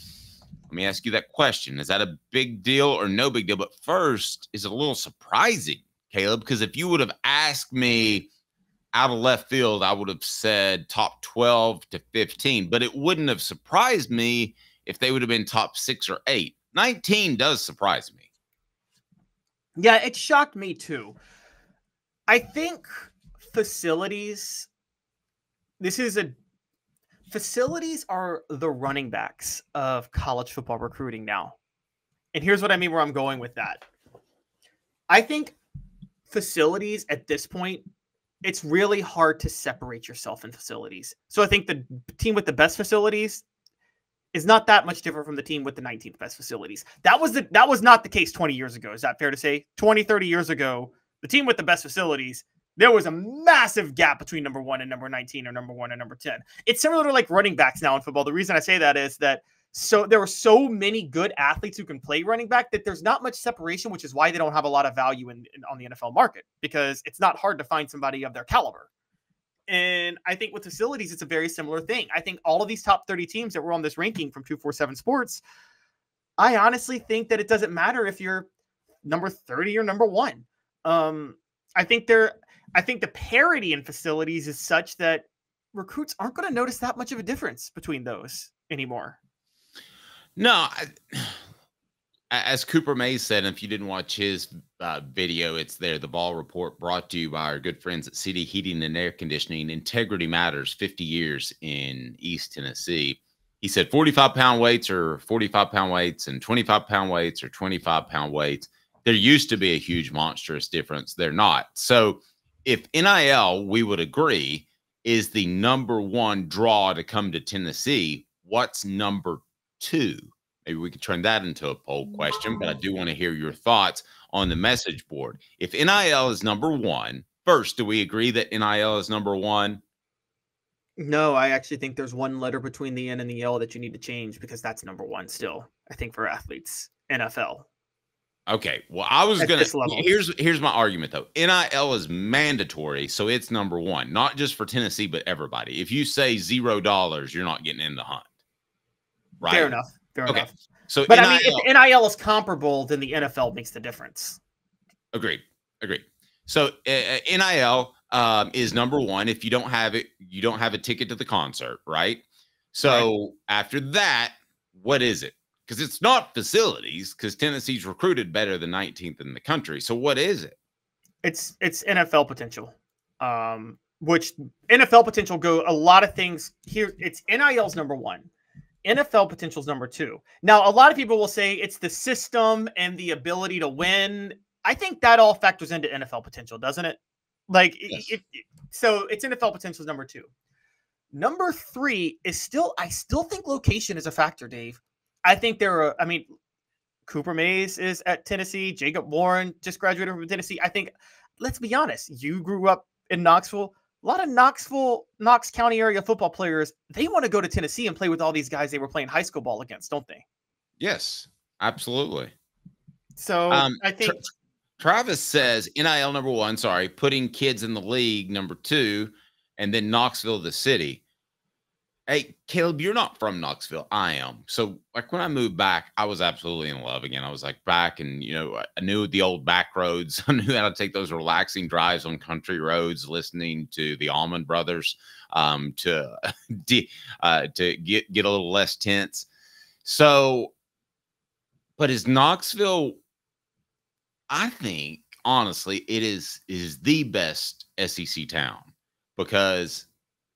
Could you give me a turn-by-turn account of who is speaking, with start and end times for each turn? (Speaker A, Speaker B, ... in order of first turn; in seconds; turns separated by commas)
Speaker A: 0.7-8.3, Speaker A: 8.9-18.2, Speaker B: 19.8-21.2, Speaker B: 22.3-24.7, Speaker B: 25.8-26.3, Speaker B: 27.3-31.6, Speaker B: 32.3-33.8, Speaker B: 35.1-35.6, Speaker B: 36.3-37.9, Speaker B: 38.4-43.4, Speaker B: 44.3-68.9, Speaker B: 69.7-75.4, Speaker B: 76.4-78.5, Speaker B: 79.0-89.2, Speaker A: 90.4-91.4, Speaker A: 92.3-129.8, Speaker B: 131.0-137.7, Speaker A: 138.5-148.3, Speaker B: 139.4-140.1, Speaker A: 149.4-149.8, Speaker B: 149.5-150.5, Speaker A: 150.3-151.7, Speaker B: 151.1-154.4, Speaker A: 155.1-170.6, Speaker B: 171.2-178.3, Speaker B: 178.8-190.3, Speaker B: 191.1-196.3, Speaker B: 197.1-210.2, Speaker A: 210.8-212.3, Speaker B: 213.2-214.2, Speaker A: 213.5-214.2, Speaker A: 214.8-221.0, Speaker A: 222.1-239.3, Speaker A: 239.8-240.5, Speaker A: 241.8-243.0, Speaker A: 244.3-249.9